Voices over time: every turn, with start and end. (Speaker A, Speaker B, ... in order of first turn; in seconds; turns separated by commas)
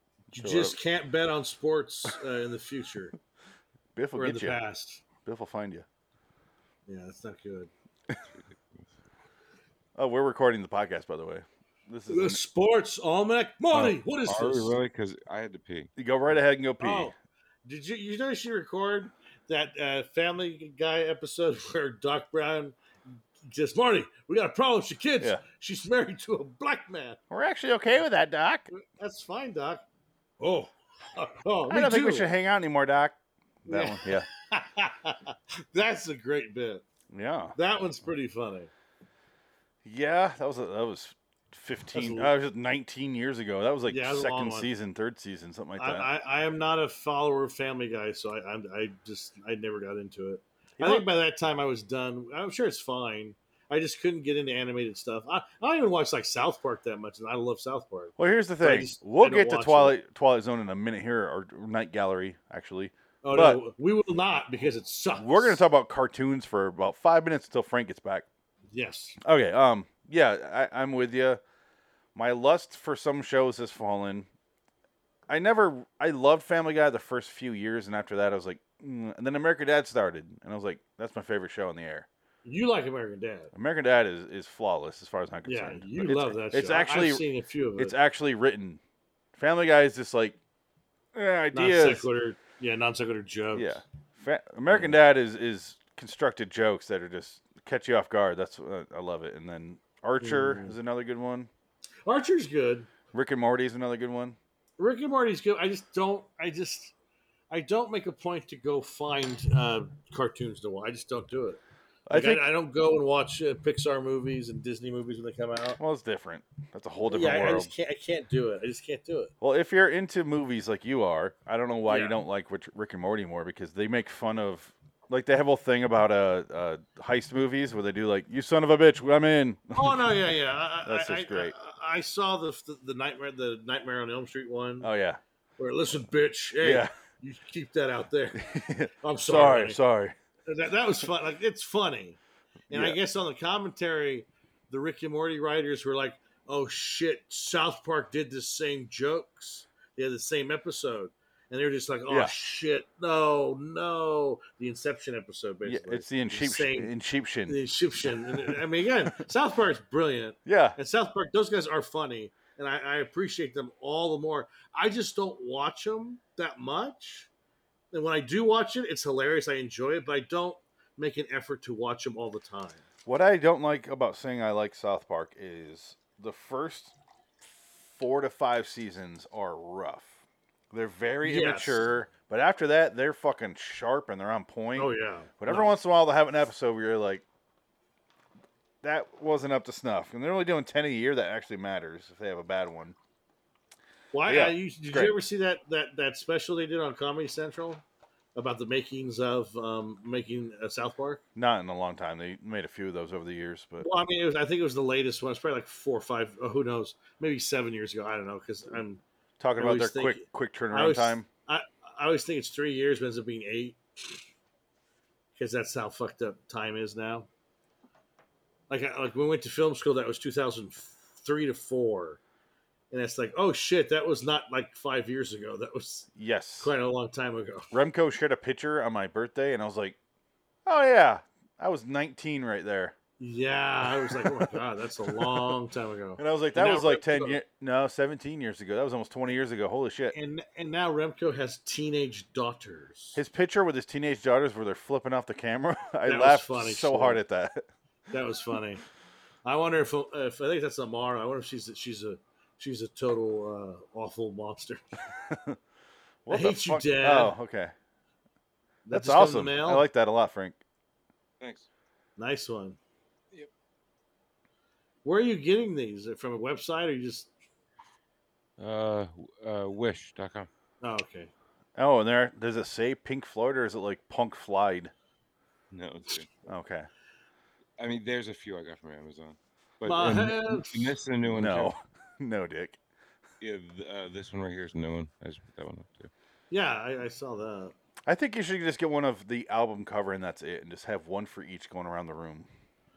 Speaker A: 0.3-3.1, Speaker B: 0.4-0.8, Speaker B: 3.9-4.6, Speaker A: 4.2-5.0, Speaker B: 5.2-5.8, Speaker A: 6.9-7.7, Speaker C: 8.3-8.8, Speaker B: 10.0-12.4, Speaker A: 12.1-14.8, Speaker C: 13.7-15.9, Speaker B: 15.9-17.1, Speaker A: 16.8-22.8, Speaker A: 23.4-27.2, Speaker B: 27.3-28.7, Speaker A: 28.8-29.8, Speaker A: 30.4-32.3, Speaker B: 31.7-34.3, Speaker A: 33.7-36.8, Speaker B: 37.1-37.5, Speaker A: 37.5-38.7, Speaker B: 39.8-46.1, Speaker A: 41.9-42.3, Speaker A: 43.9-44.7, Speaker A: 45.8-60.0, Speaker B: 50.8-51.0, Speaker B: 58.2-63.6, Speaker A: 63.2-65.6, Speaker B: 65.1-68.2, Speaker A: 68.7-69.2, Speaker B: 69.2-71.4, Speaker B: 72.1-74.3, Speaker B: 75.3-82.1, Speaker A: 82.4-83.5, Speaker B: 83.5-87.2, Speaker A: 85.5-87.9, Speaker B: 87.8-88.8, Speaker B: 89.3-90.4, Speaker B: 91.1-92.1, Speaker A: 91.5-93.8, Speaker B: 93.5-101.5, Speaker A: 100.2-100.8, Speaker A: 102.0-102.9, Speaker B: 103.1-104.4, Speaker A: 104.8-106.9, Speaker A: 107.5-111.6, Speaker B: 112.1-112.5, Speaker A: 112.1-115.8, Speaker B: 115.8-117.7, Speaker A: 117.0-119.3, Speaker B: 119.4-131.5, Speaker A: 121.9-122.2, Speaker A: 129.8-134.9, Speaker B: 134.8-135.2, Speaker A: 135.6-139.8, Speaker B: 136.6-136.9, Speaker B: 138.3-140.2, Speaker A: 140.5-156.9, Speaker B: 142.7-143.0, Speaker B: 152.1-152.3, Speaker B: 155.6-158.6, Speaker A: 157.5-167.3, Speaker B: 160.4-160.8, Speaker A: 167.9-172.8, Speaker B: 173.1-176.9, Speaker B: 177.8-187.2, Speaker A: 181.2-181.8, Speaker A: 184.8-185.7, Speaker B: 188.8-192.9, Speaker A: 194.1-197.8, Speaker B: 194.2-195.2, Speaker A: 198.3-201.2, Speaker B: 201.3-203.9, Speaker A: 203.8-209.0, Speaker B: 209.4-211.2, Speaker A: 209.6-214.2, Speaker A: 215.3-217.3, Speaker A: 218.7-222.2, Speaker A: 222.9-226.1, Speaker B: 226.2-226.7, Speaker A: 226.6-227.7, Speaker B: 227.7-230.0, Speaker B: 230.7-232.9, Speaker A: 233.2-237.4, Speaker B: 233.8-235.5, Speaker B: 236.2-240.1, Speaker A: 240.1-243.2, Speaker B: 243.2-247.6, Speaker A: 246.1-247.2, Speaker A: 248.1-248.8, Speaker A: 249.4-255.0, Speaker B: 255.3-255.6, Speaker B: 256.2-257.7, Speaker A: 256.3-257.3, Speaker A: 258.9-259.9, Speaker B: 258.9-260.6, Speaker C: 261.4-261.7, Speaker A: 262.2-262.8, Speaker A: 265.0-267.3, Speaker C: 268.6-270.5, Speaker A: 270.8-271.3, Speaker B: 271.8-274.9, Speaker C: 275.7-276.3, Speaker B: 276.5-276.9, Speaker C: 277.8-281.7, Speaker A: 279.9-281.0, Speaker B: 281.2-282.8, Speaker C: 283.4-286.1, Speaker A: 286.5-287.7, Speaker B: 288.1-292.5